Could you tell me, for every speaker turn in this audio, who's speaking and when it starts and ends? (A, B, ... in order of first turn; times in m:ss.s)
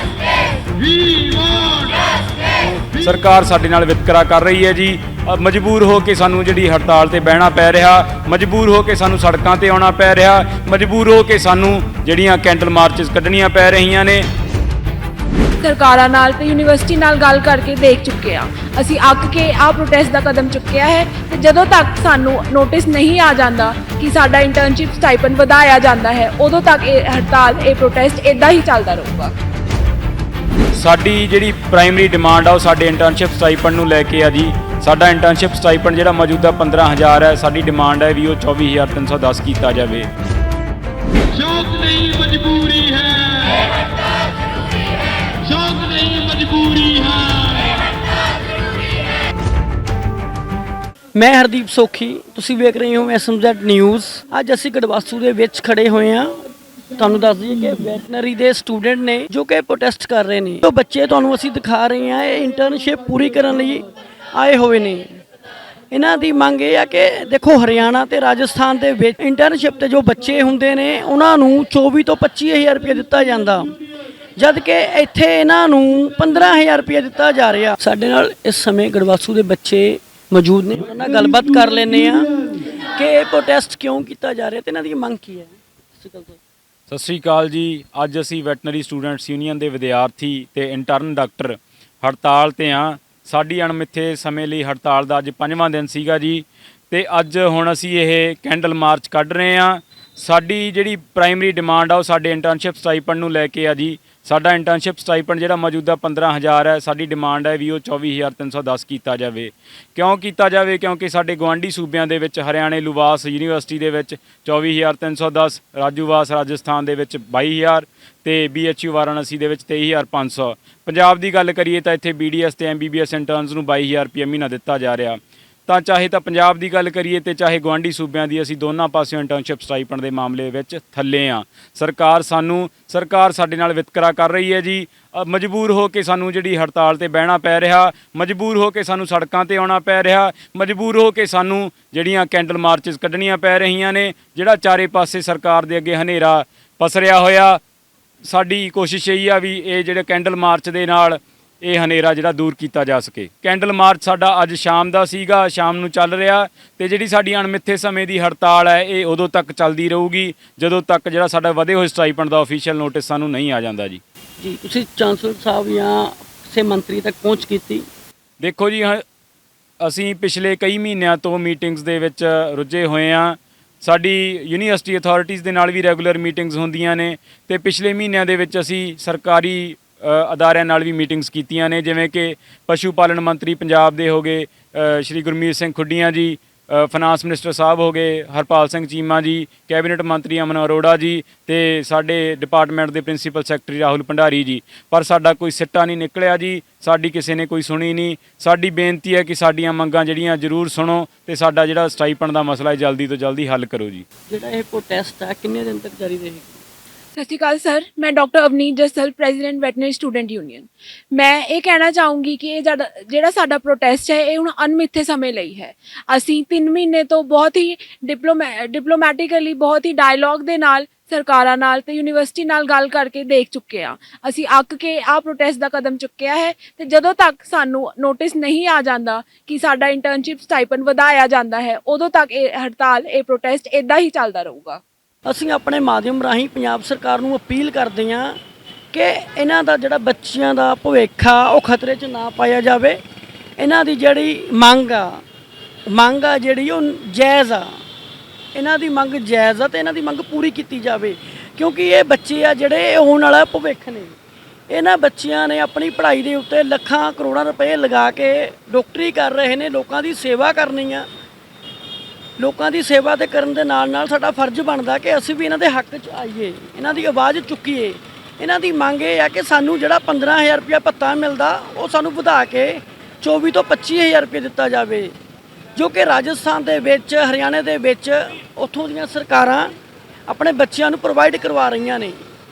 0:00.8-0:01.9 A
0:02.9-0:14.2 B
0:15.6-0:29.3 C
0:30.7-0:40.1 B
0:41.4-0:43.7 A
0:45.4-0:47.7 A
0:51.1-0:56.4 D
0:57.0-1:05.2 D
1:05.9-1:13.7 D
1:14.4-1:22.3 D
1:23.0-1:26.4 D
1:26.9-2:27.6 B
2:28.2-2:44.0 B
2:44.4-2:47.8 D
2:48.4-2:49.0 B
2:49.8-3:24.0 B
3:24.3-3:26.6 D
3:27.2-3:54.8 C
3:55.2-3:58.4 D
3:58.9-4:03.0 D
4:03.6-4:05.2 D
4:05.9-4:07.7 D
4:08.5-4:14.1 D
4:14.7-4:21.1 D
4:22.4-4:35.1 D
4:35.8-4:39.7 D
4:40.3-4:42.2 D